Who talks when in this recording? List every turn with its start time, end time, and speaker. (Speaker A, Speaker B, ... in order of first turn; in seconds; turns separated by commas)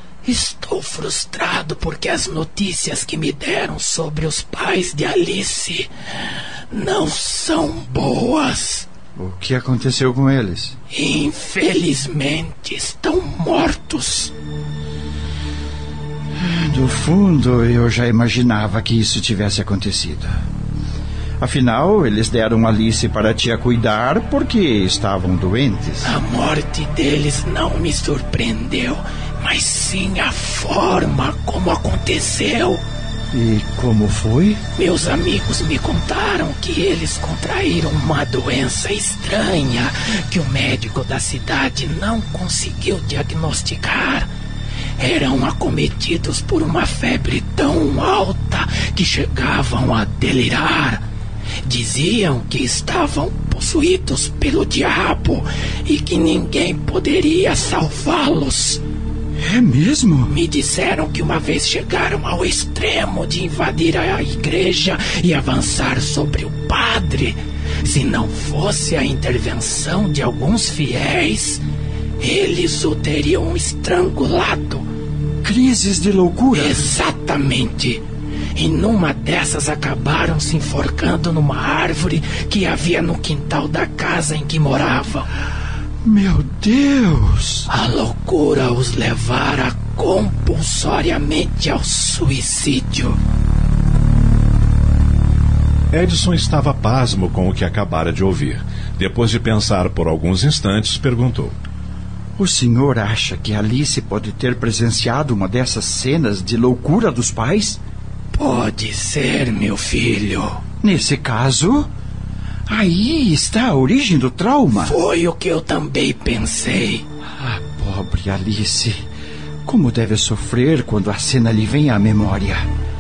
Speaker A: 0.2-5.9, Speaker A: 6.7-8.9, Speaker B: 9.2-10.8, Speaker A: 10.9-14.3, Speaker B: 16.4-20.3, Speaker B: 21.4-26.2, Speaker A: 26.0-32.8, Speaker B: 33.3-34.6, Speaker A: 34.8-44.3, Speaker A: 45.0-51.0, Speaker A: 51.6-58.8, Speaker B: 59.4-60.3, Speaker A: 60.3-71.6, Speaker A: 72.2-74.8, Speaker B: 75.4-76.8, Speaker A: 76.5-78.0, Speaker A: 78.5-85.3, Speaker B: 86.0-87.7, Speaker A: 87.7-93.2, Speaker C: 95.9-101.5, Speaker B: 102.4-107.8, Speaker A: 108.3-110.6, Speaker B: 110.8-111.9, Speaker B: 112.7-115.0, Speaker A: 114.8-117.0, Speaker B: 117.3-119.0, Speaker B: 119.7-122.7